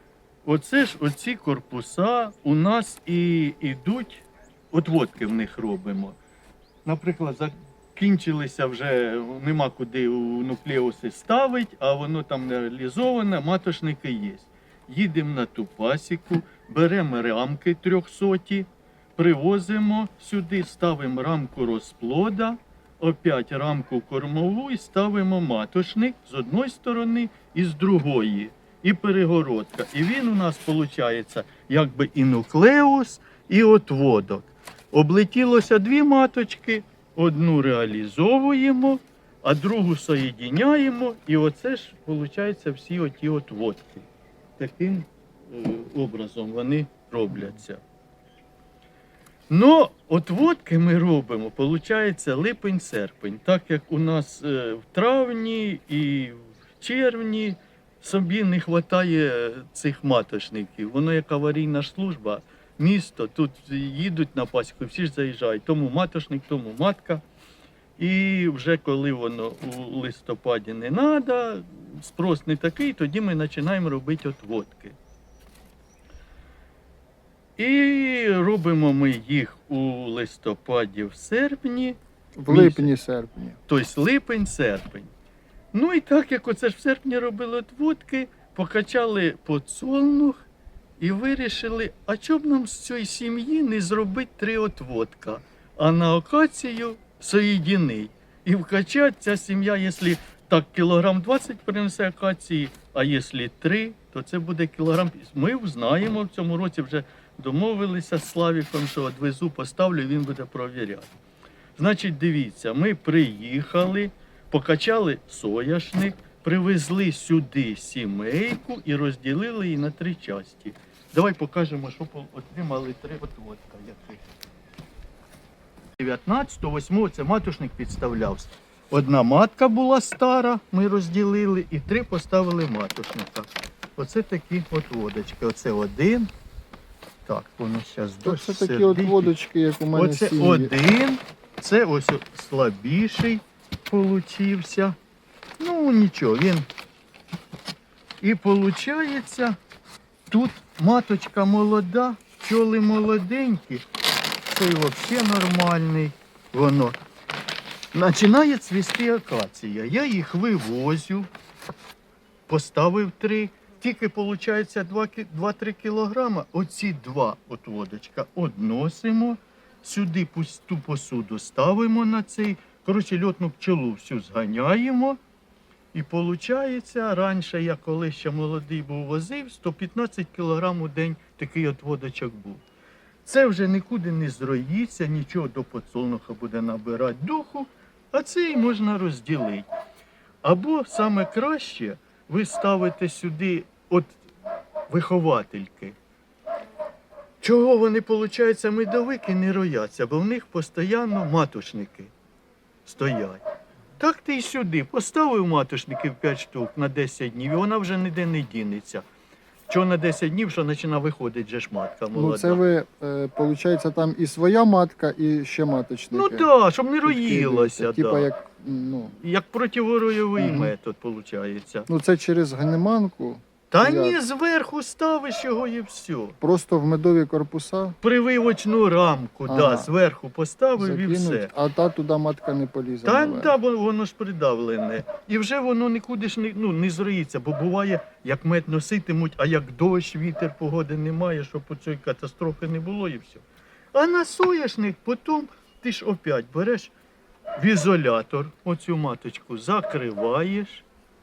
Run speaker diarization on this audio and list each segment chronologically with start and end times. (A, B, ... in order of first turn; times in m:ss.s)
0:00.4-0:06.2 A
0:06.8-0:44.1 A
0:44.6-0:47.8 A
0:49.5-1:07.2 A
1:08.0-1:15.0 A
1:17.6-1:22.9 A
1:22.4-1:23.6 B
1:23.7-1:25.1 A
1:25.7-1:30.4 A
1:31.0-1:51.1 A
1:51.8-2:04.2 A
2:06.0-2:16.3 A
2:17.2-2:19.3 A
2:18.2-2:20.7 B
2:19.9-2:25.0 A
2:25.6-2:26.7 A
2:28.2-2:29.6 A
2:30.3-2:33.8 A
2:34.5-2:37.0 A
2:37.9-2:41.3 A
2:42.5-2:55.2 A
2:55.9-3:02.6 A
3:03.2-3:09.7 A
3:10.4-3:14.2 A
3:14.9-3:16.0 A
3:17.4-3:22.1 A
3:22.8-3:23.4 A
3:24.0-3:29.0 A
3:29.7-3:32.6 A
3:32.1-3:36.5 B
3:36.1-3:38.3 A
3:37.0-3:39.1 B
3:39.1-3:41.9 A
3:40.4-3:40.7 B
3:41.9-3:44.2 B
3:43.7-3:46.4 A
3:46.4-3:48.0 B
3:48.0-3:51.5 A
3:49.5-3:49.9 B
3:50.8-3:53.5 B
3:53.0-4:03.4 A
4:03.9-4:06.9 A
4:07.6-4:10.8 A